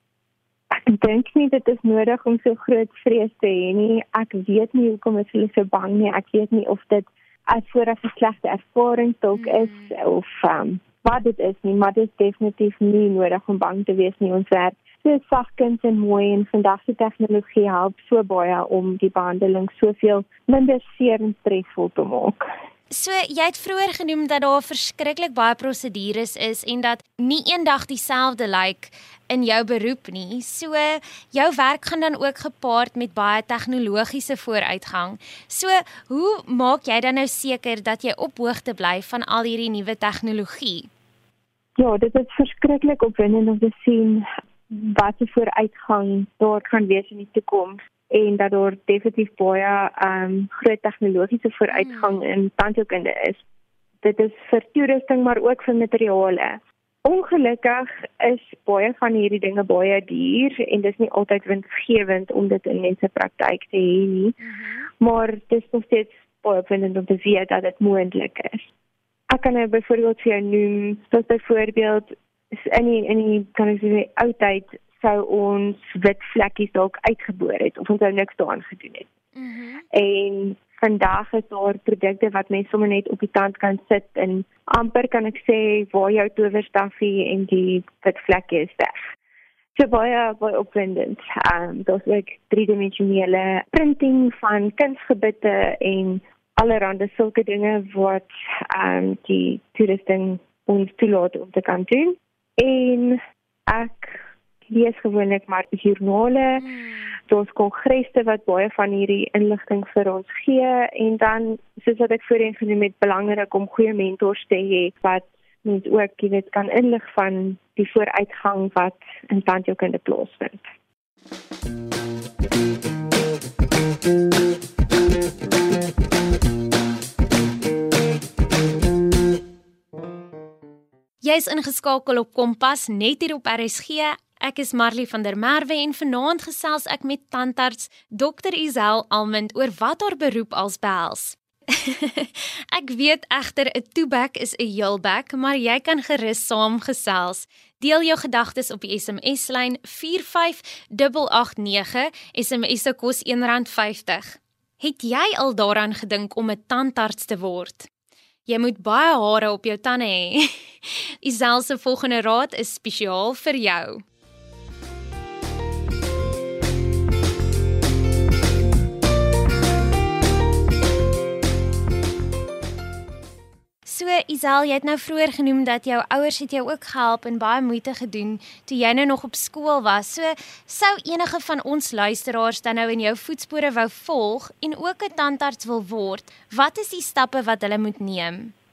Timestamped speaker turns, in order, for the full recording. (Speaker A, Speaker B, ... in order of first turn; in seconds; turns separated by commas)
Speaker A: 0.7-22.4, Speaker B: 9.3-9.9, Speaker B: 22.9-40.9, Speaker A: 41.8-53.4, Speaker B: 51.7-52.2, Speaker A: 54.0-64.3, Speaker B: 64.4-64.9, Speaker A: 65.0-68.7, Speaker A: 69.3-79.1, Speaker B: 79.3-79.8, Speaker A: 79.9-89.0, Speaker A: 89.7-106.6, Speaker B: 106.6-107.1, Speaker A: 107.2-120.6, Speaker B: 131.2-157.9, Speaker B: 158.5-164.0, Speaker B: 173.8-188.5